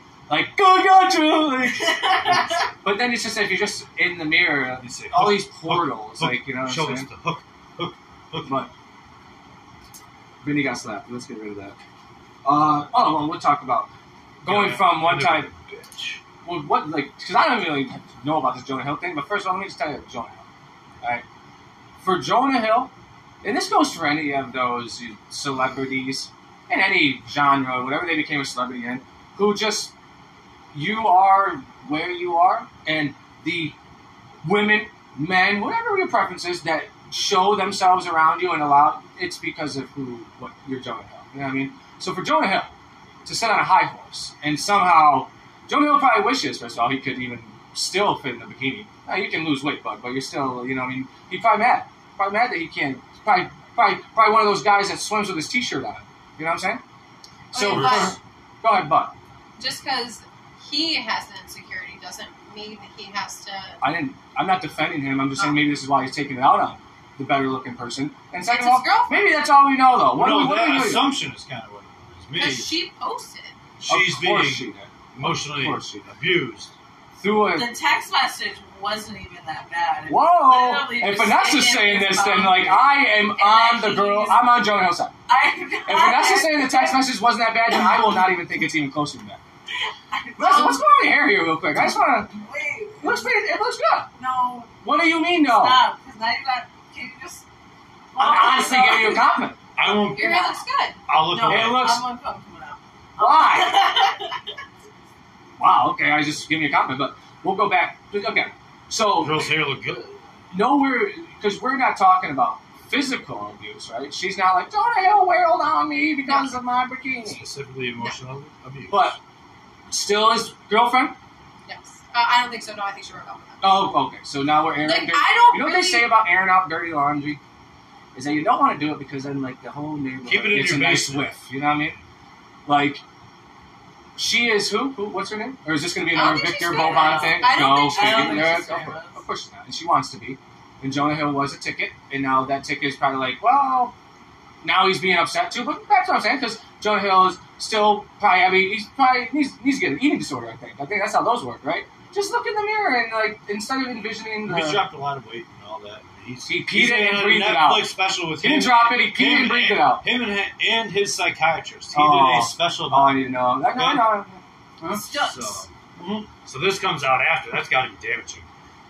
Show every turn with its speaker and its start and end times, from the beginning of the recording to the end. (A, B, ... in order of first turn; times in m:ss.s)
0:00.3-0:07.1 A
0:04.8-0:08.6 B
0:08.4-0:08.7 A
0:10.4-0:11.8 A
0:12.4-0:13.9 A
0:14.4-0:15.5 A
0:14.5-0:16.2 B
0:16.4-0:20.4 A
0:22.0-0:22.9 A
0:23.4-0:29.9 A
0:30.7-0:33.8 A
0:34.4-0:42.7 A
0:43.2-0:56.8 A
0:57.5-0:58.2 C
0:57.5-0:59.1 A
0:57.7-0:58.2 B
0:59.6-1:03.8 C
1:03.8-1:11.1 A
1:08.4-1:09.4 C
1:10.1-1:12.7 B
1:12.4-1:13.6 C
1:13.8-1:16.7 B
1:13.9-1:16.1 A
1:17.2-1:17.7 A
1:17.4-1:24.5 D
1:20.1-1:25.1 A
1:25.3-1:27.1 D
1:25.9-1:29.4 A
1:30.1-1:30.8 D
1:30.4-1:32.4 A
1:30.5-1:30.8 C
1:32.3-1:33.3 D
1:33.0-1:34.1 A
1:34.2-1:34.8 D
1:34.8-1:35.8 A
1:35.4-1:37.4 D
1:38.1-1:40.6 D
1:38.2-1:39.6 A
1:39.8-1:40.4 B
1:40.1-1:41.0 C
1:41.1-1:41.9 B
1:41.2-1:44.4 D
1:41.4-1:42.0 A
1:43.2-1:43.9 A
1:45.6-1:49.5 A
1:49.2-1:50.2 B
1:50.5-1:57.5 A
1:56.3-1:56.5 C
1:57.2-1:59.2 B
1:58.9-1:59.2 A
1:59.9-2:01.2 A
2:01.7-2:03.9 C
2:03.6-2:07.4 A
2:04.8-2:06.1 C
2:08.2-2:12.0 A
2:10.2-2:11.3 B
2:12.7-2:13.0 A
2:14.2-2:24.0 A
2:16.1-2:18.7 C
2:16.7-2:19.2 D
2:24.6-2:34.9 A
2:34.5-2:44.1 B
2:36.5-2:40.0 A
2:41.9-2:45.0 A
2:44.8-2:48.5 B
2:45.0-2:45.3 D
2:45.2-2:45.6 C